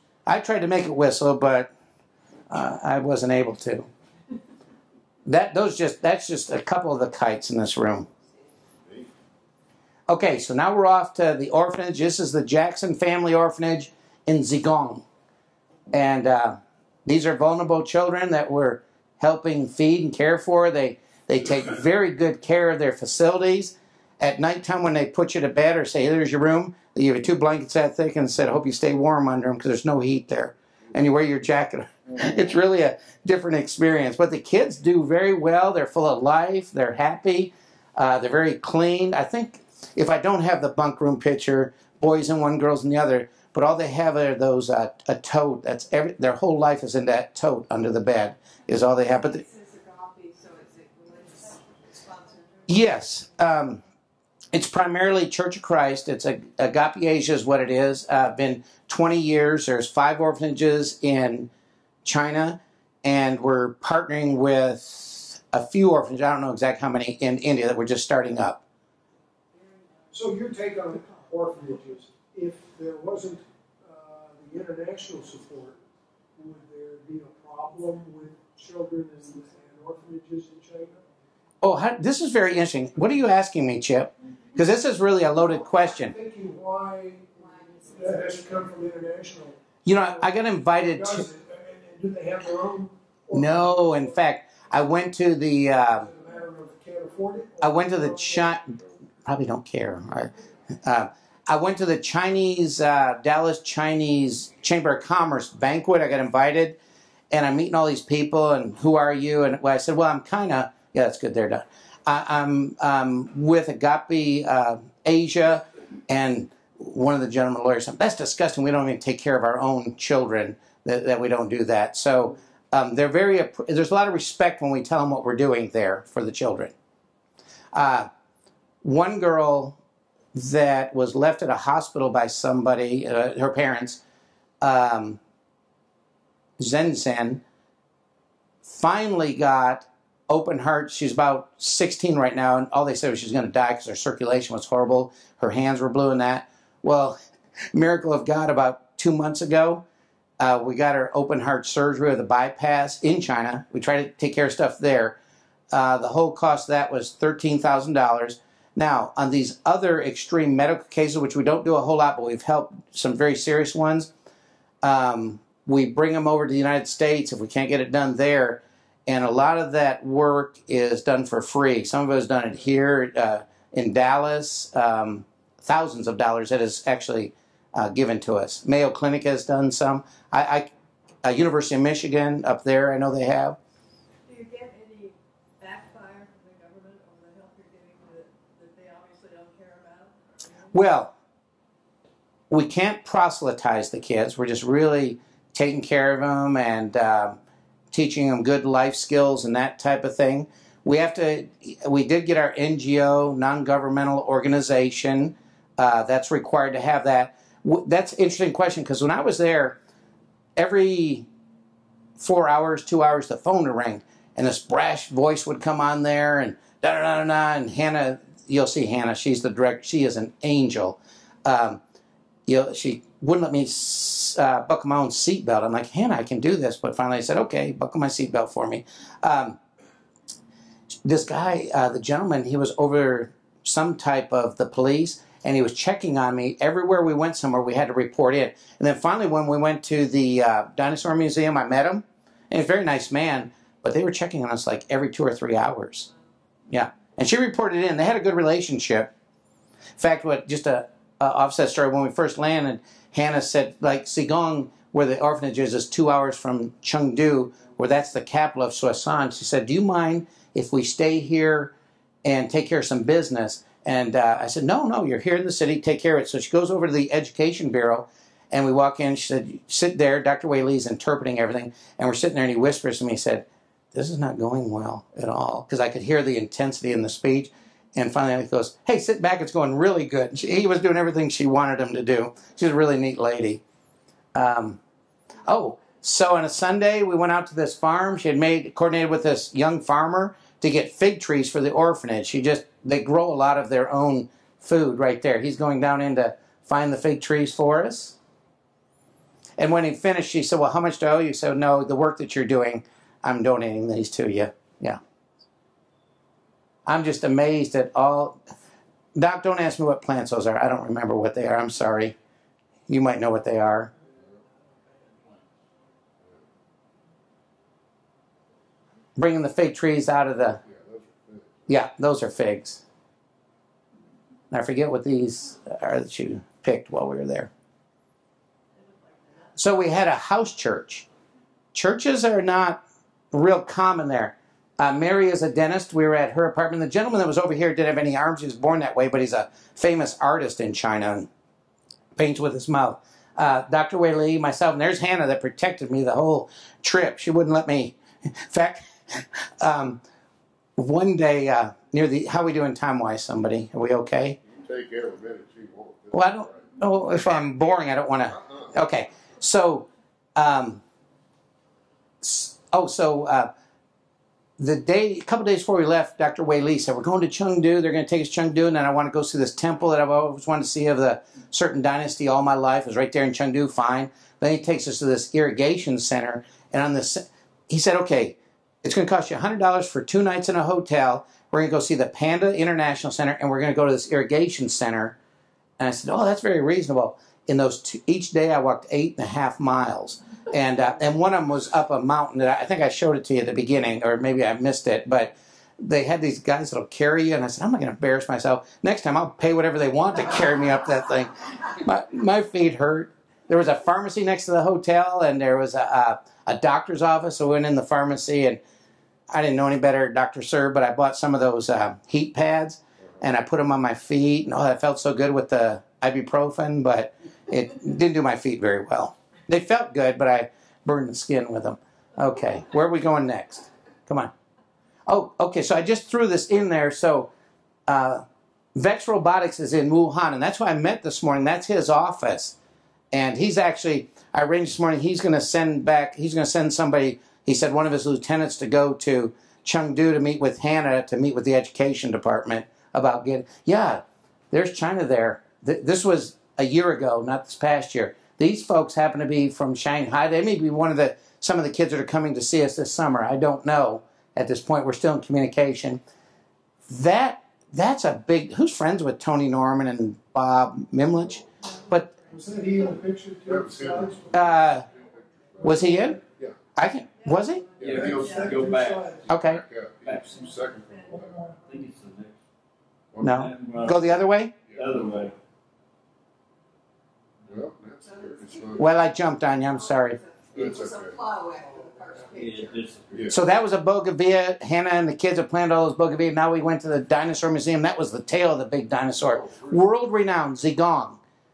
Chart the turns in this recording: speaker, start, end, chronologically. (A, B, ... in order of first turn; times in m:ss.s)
0:00.3-0:01.7 A
0:02.5-0:03.9 A
0:05.3-0:08.1 A
0:10.1-0:15.0 A
0:15.9-0:49.4 A
0:49.4-0:52.8 B
0:52.7-0:53.8 A
0:54.5-1:01.5 A
1:02.0-1:08.6 A
1:10.1-1:15.8 C
1:16.4-1:21.0 C
1:21.6-1:26.2 A
1:25.4-1:27.2 C
1:27.4-1:28.5 B
1:28.0-1:34.2 C
1:29.8-1:31.3 A
1:33.3-1:36.1 A
1:35.9-1:38.6 C
1:37.6-1:40.3 A
1:40.8-1:46.8 A
1:47.3-2:06.7 A
2:07.7-2:08.1 A
2:08.8-2:09.8 A
2:10.3-2:14.0 A
2:14.6-2:15.2 A
2:16.6-2:17.4 A
2:18.6-2:27.2 A
2:27.7-2:29.8 A
2:30.4-2:35.2 A
2:35.7-2:44.1 A
2:44.8-3:00.7 A
3:01.2-3:03.6 A
3:04.3-3:10.1 B
3:10.7-3:11.1 A
3:12.5-3:17.4 A
3:17.9-3:29.8 A
3:30.6-3:31.3 A
3:32.2-3:41.8 A
3:42.5-3:49.6 A
3:51.0-4:06.1 A
4:06.7-4:09.1 A
4:10.0-4:21.7 A
4:22.2-4:43.6 A
4:44.4-4:44.8 A
4:45.5-4:58.2 A
4:59.6-5:05.0 A
5:06.9-5:08.4 A
5:09.2-5:12.2 A
5:12.9-5:13.9 A
5:19.2-5:20.6 A
5:20.6-5:21.7 D
5:21.7-5:22.8 A
5:24.5-5:27.5 A
5:29.6-5:31.1 A
5:31.7-5:41.3 A
5:42.2-5:48.0 A
5:48.5-5:50.0 A
5:50.8-5:54.4 A
5:54.5-5:56.8 D
5:56.1-6:00.8 A
5:58.3-5:58.7 D
6:02.2-6:03.5 A
6:04.6-6:25.2 A
6:25.8-6:48.6 A
6:49.3-7:04.3 A
7:05.1-7:07.3 A
7:07.9-7:08.2 A
7:08.8-7:12.6 A
7:13.1-7:36.0 A
7:36.9-7:42.1 A
7:42.3-7:44.8 C
7:43.4-7:46.6 D
7:44.3-7:44.8 A
7:45.6-7:46.2 C
7:45.6-7:46.2 A
7:46.8-7:47.7 A
7:47.8-7:48.8 D
7:47.8-7:49.5 E
7:47.8-7:49.4 C
7:49.3-7:49.6 A
7:49.3-7:51.5 D
7:50.0-7:50.6 E
7:51.1-7:51.5 C
7:51.6-7:52.4 E
7:53.2-7:54.5 A
7:53.2-7:54.2 E
7:54.7-7:55.3 D
7:54.7-7:55.4 E
7:57.5-7:58.9 D
7:58.1-7:58.8 B
7:58.8-8:00.2 A
7:59.7-8:02.8 B
8:00.5-8:01.2 D
8:02.4-8:03.4 E
8:03.3-8:11.2 A
8:09.2-8:09.8 D